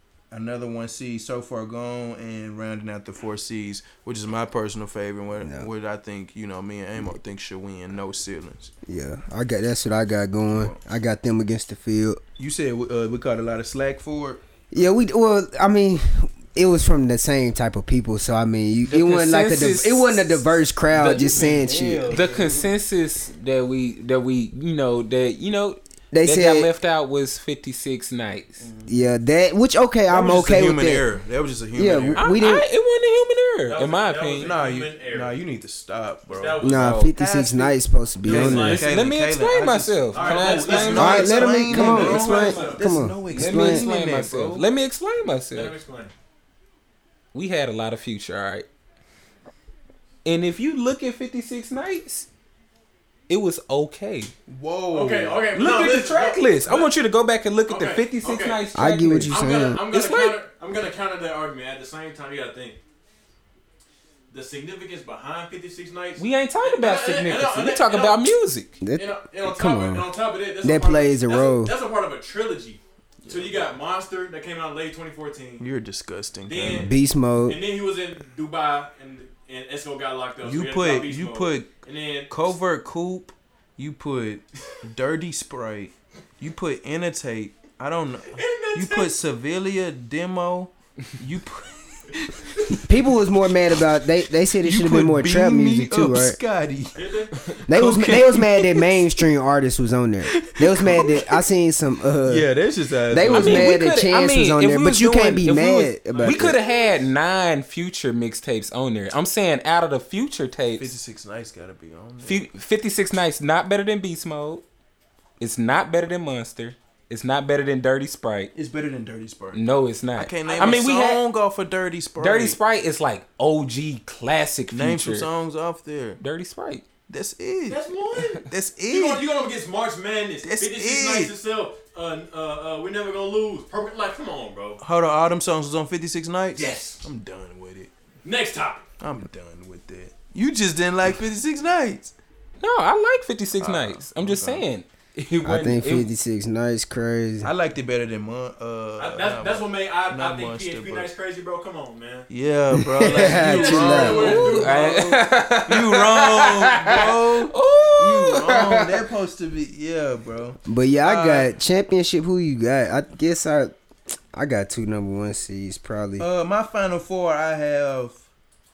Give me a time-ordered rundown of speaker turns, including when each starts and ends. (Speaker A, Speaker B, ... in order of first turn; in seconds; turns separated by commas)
Speaker A: 0.3-8.7, Speaker B: 5.4-5.7, Speaker B: 8.9-12.2, Speaker A: 10.5-10.8, Speaker A: 12.4-14.4, Speaker B: 14.7-22.2, Speaker C: 18.9-21.5, Speaker A: 20.9-22.7, Speaker C: 22.1-28.6, Speaker B: 26.1-26.7, Speaker A: 28.6-29.0, Speaker B: 28.9-31.1, Speaker A: 30.1-32.4, Speaker B: 31.8-32.7, Speaker C: 32.2-34.5, Speaker D: 33.7-35.4, Speaker A: 34.4-44.7, Speaker D: 36.3-37.0, Speaker B: 36.6-38.8, Speaker C: 36.8-37.1, Speaker D: 38.3-38.8, Speaker C: 38.8-42.8, Speaker D: 40.1-42.8, Speaker B: 41.0-43.9, Speaker C: 43.3-45.8, Speaker D: 45.5-46.1, Speaker C: 47.3-48.7, Speaker C: 50.2-52.3, Speaker C: 53.3-54.3, Speaker A: 54.5-55.5, Speaker D: 54.9-56.9, Speaker C: 55.5-59.4, Speaker D: 57.7-58.7, Speaker B: 58.8-59.8, Speaker D: 59.3-62.8, Speaker C: 59.9-60.4, Speaker D: 64.3-68.3, Speaker C: 66.2-68.8, Speaker B: 68.8-70.1, Speaker D: 69.0-75.7, Speaker B: 70.6-71.7, Speaker A: 73.2-73.8, Speaker A: 75.6-76.9, Speaker D: 76.5-76.9, Speaker B: 76.7-77.6, Speaker D: 77.5-82.3, Speaker A: 80.4-81.8, Speaker A: 82.3-92.8, Speaker D: 88.3-89.2, Speaker B: 92.9-96.4, Speaker A: 94.6-99.0, Speaker D: 97.0-97.3, Speaker B: 97.7-102.5, Speaker A: 100.3-101.4, Speaker A: 102.2-103.8, Speaker B: 103.1-106.6, Speaker C: 103.3-110.9, Speaker D: 106.1-107.1, Speaker A: 110.8-112.5, Speaker C: 112.2-114.7, Speaker C: 115.4-118.5, Speaker A: 118.5-119.6, Speaker C: 119.5-121.2, Speaker A: 120.2-122.6, Speaker D: 120.5-121.0, Speaker C: 122.2-125.3, Speaker A: 124.7-126.2, Speaker C: 126.2-126.8, Speaker A: 127.1-127.8, Speaker D: 127.7-134.8, Speaker A: 128.4-129.3, Speaker A: 130.4-131.3, Speaker A: 134.8-137.9, Speaker D: 136.6-137.0, Speaker D: 138.2-138.8, Speaker A: 139.0-142.1, Speaker C: 142.6-146.1, Speaker A: 143.6-144.7, Speaker B: 145.4-147.5, Speaker A: 147.4-151.1, Speaker D: 149.0-152.3, Speaker A: 152.3-161.5, Speaker B: 152.7-154.4, Speaker D: 153.1-155.2, Speaker C: 154.0-158.9, Speaker B: 160.7-163.7, Speaker B: 164.3-166.3, Speaker A: 166.2-168.2